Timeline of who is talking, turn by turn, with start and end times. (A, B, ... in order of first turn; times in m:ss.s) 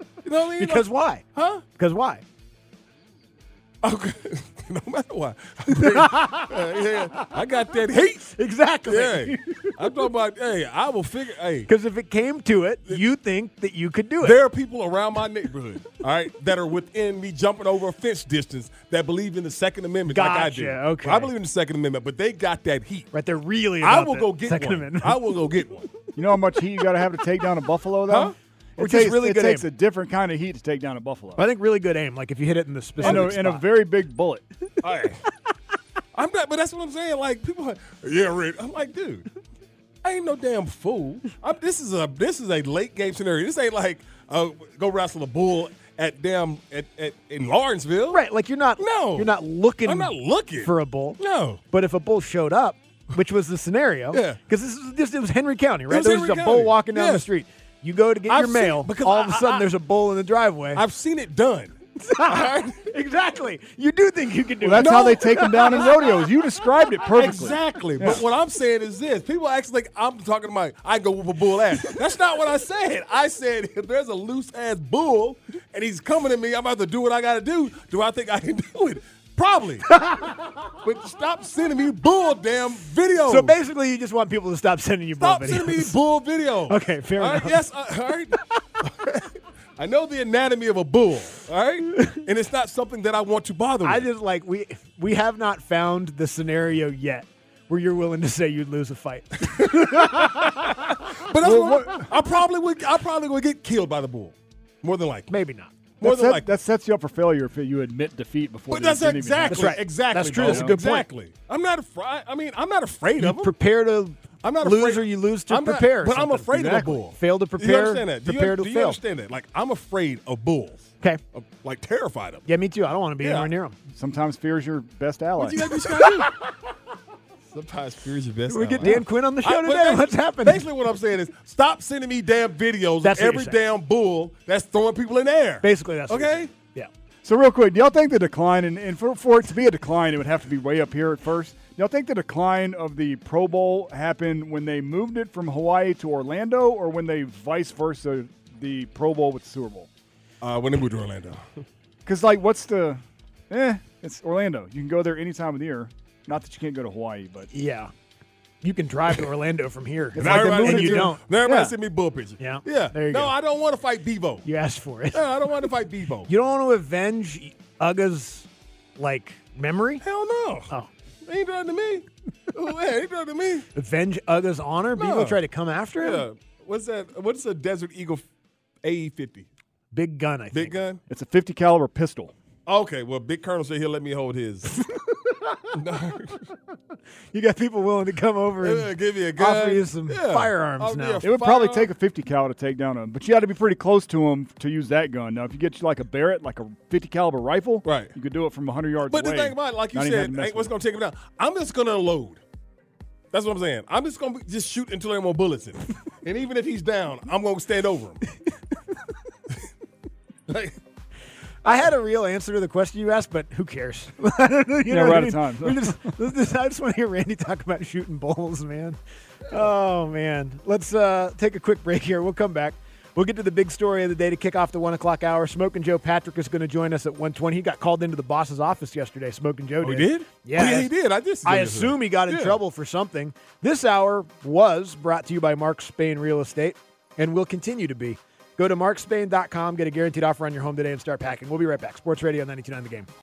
0:00.2-0:01.6 A
0:00.6-0:01.2 B
0:01.8-0:02.2 B
0:03.8-0:08.3 A
0:05.8-0:09.9 B
0:08.9-0:11.7 A
0:11.7-0:14.4 B
0:14.2-0:23.1 A
0:20.1-0:21.3 B
0:23.1-0:25.2 B
0:23.8-0:25.9 A
0:26.2-0:31.4 C
0:28.1-0:28.3 A
0:28.8-0:29.6 B
0:31.4-0:33.6 B
0:33.0-0:33.3 A
0:33.0-0:34.5 C
0:34.8-0:35.2 A
0:36.1-0:39.3 A
0:40.0-0:48.2 A
0:48.1-0:51.2 B
0:48.8-0:49.3 A
0:49.8-0:51.6 A
0:51.7-1:00.8 B
0:54.1-0:54.4 A
0:55.9-0:57.3 A
0:58.3-0:59.7 A
1:00.8-1:02.8 A
1:02.0-1:06.2 B
1:04.6-1:08.2 C
1:04.8-1:06.1 A
1:07.1-1:20.0 A
1:19.9-1:20.4 B
1:20.8-1:23.6 A
1:23.3-1:26.0 B
1:25.2-1:29.2 A
1:26.7-1:27.6 B
1:29.8-1:34.1 A
1:33.8-1:40.8 B
1:39.4-1:45.3 A
1:41.4-1:42.0 C
1:45.3-1:45.7 B
1:46.0-1:46.5 A
1:46.0-1:50.8 C
1:48.7-1:53.5 A
1:49.5-1:51.1 B
1:53.2-1:59.0 B
1:54.4-2:02.5 A
2:02.5-2:03.8 B
2:03.2-2:03.5 A
2:04.0-2:05.7 C
2:05.4-2:06.3 A
2:05.8-2:06.3 B
2:07.5-2:16.5 A
2:08.5-2:10.6 B
2:13.0-2:13.6 B
2:15.6-2:16.9 B
2:17.2-2:29.9 C
2:30.4-2:31.4 A
2:32.0-2:37.5 C
2:37.5-2:37.9 B
2:38.6-2:41.7 B
2:40.2-2:41.7 C
2:40.2-2:44.5 A
2:42.4-2:43.3 B
2:44.4-2:45.3 B
2:45.1-2:46.3 A
2:46.3-2:50.0 B
2:50.0-2:50.7 A
2:51.3-2:53.7 A
2:53.8-2:56.3 B
2:55.0-2:55.4 A
2:56.0-2:58.2 A
2:58.8-2:59.5 A
2:59.9-3:00.8 B
3:00.5-3:01.0 A
3:01.1-3:02.3 C
3:02.7-3:04.8 A
3:04.9-3:05.7 B
3:05.7-3:06.4 A
3:07.3-3:11.2 B
3:08.6-3:11.9 A
3:11.2-3:20.7 C
3:17.8-3:18.1 A
3:19.1-3:22.4 A
3:23.3-3:28.2 A
3:30.5-3:30.8 A
3:31.6-3:39.0 B
3:34.9-3:36.0 C
3:39.5-3:50.9 B
3:49.8-3:52.6 A
3:51.4-4:03.1 B